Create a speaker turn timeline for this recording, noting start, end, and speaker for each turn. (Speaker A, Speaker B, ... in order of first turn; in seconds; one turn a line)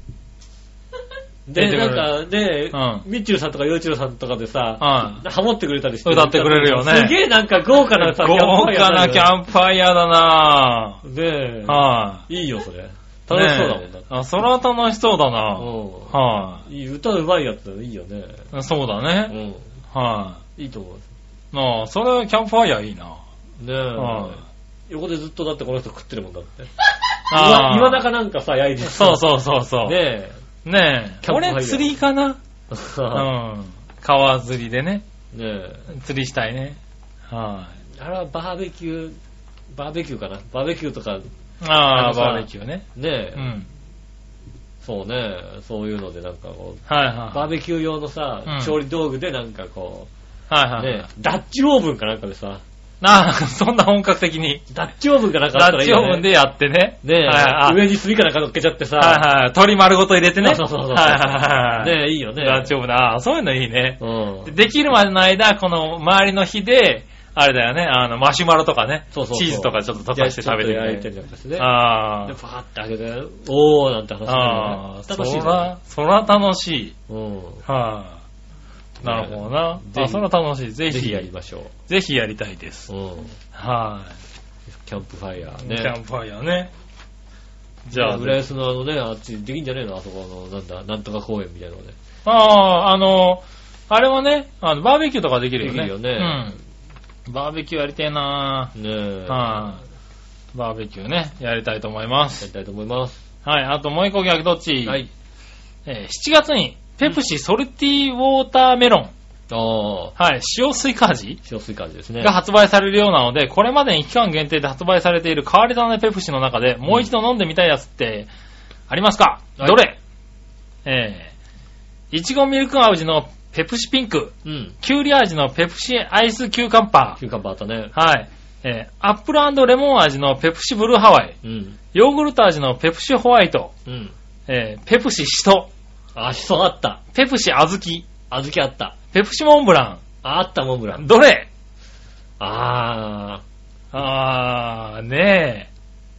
Speaker A: 1.5-9.3
Speaker B: 1.5-2.1
Speaker B: 2.7-3.0
Speaker B: 4.8-5.2
Speaker B: 6.0-7.2
Speaker B: 7.8-11.0
Speaker A: 11.0-14.1
Speaker B: 11.7-12.2
Speaker B: 13.3-16.6
Speaker A: 15.6-18.4
Speaker B: 18.5-19.4
Speaker A: 19.3-19.7
Speaker B: 19.9-20.4
Speaker A: 20.6-21.1
Speaker B: 21.5-23.2
Speaker A: 23.6-26.7
Speaker B: 23.9-24.4
Speaker B: 27.3-28.1
Speaker A: 27.3-29.3
Speaker B: 28.8-30.0
Speaker A: 29.8-30.4
Speaker B: 30.6-32.4
Speaker A: 31.2-32.0
Speaker A: 32.7-33.3
Speaker B: 33.1-35.0
Speaker A: 35.3-35.9
Speaker B: 35.9-37.8
Speaker A: 38.0-39.2
Speaker A: 39.7-41.3
Speaker B: 41.6-43.7
Speaker A: 41.9-43.5
Speaker A: 44.8-50.1
Speaker B: 46.9-47.5
Speaker B: 48.5-48.8
Speaker B: 50.5-51.1
Speaker A: 50.8-52.6
Speaker B: 53.0-54.6
Speaker A: 54.7-56.3
Speaker B: 55.5-57.8
Speaker A: 57.0-59.2
Speaker B: 59.0-72.3
Speaker A: 60.4-62.7
Speaker A: 64.0-64.5
Speaker A: 69.1-75.7
Speaker B: 74.2-76.9
Speaker A: 77.1-77.6
Speaker B: 77.7-78.2
Speaker A: 79.0-80.2
Speaker B: 79.0-81.3
Speaker A: 80.9-81.7
Speaker B: 81.9-82.9
Speaker A: 82.9-83.3
Speaker B: 83.5-84.2
Speaker A: 84.7-86.0
Speaker B: 85.6-86.7
Speaker B: 87.8-88.4
Speaker A: 87.9-92.0
Speaker B: 92.2-96.6
Speaker A: 95.6-96.5
Speaker B: 97.2-98.7
Speaker A: 98.7-99.7
Speaker B: 99.3-99.8
Speaker B: 100.5-102.5
Speaker A: 102.4-103.2
Speaker B: 103.4-105.0
Speaker B: 105.8-109.1
Speaker A: 109.5-110.1
Speaker B: 110.2-111.4
Speaker A: 111.4-112.3
Speaker B: 112.2-118.3
Speaker B: 118.9-120.0
Speaker B: 120.8-121.3
Speaker B: 122.1-127.2
Speaker A: 124.4-124.8
Speaker A: 127.2-127.9
Speaker B: 127.9-131.3
Speaker A: 131.4-131.8
Speaker B: 131.9-133.7
Speaker A: 133.8-134.1
Speaker B: 134.5-135.7
Speaker A: 136.1-137.0
Speaker B: 137.1-138.1
Speaker A: 138.3-138.9
Speaker B: 139.1-140.0
Speaker A: 140.2-141.0
Speaker B: 140.9-141.5
Speaker A: 142.4-143.4
Speaker B: 143.9-145.7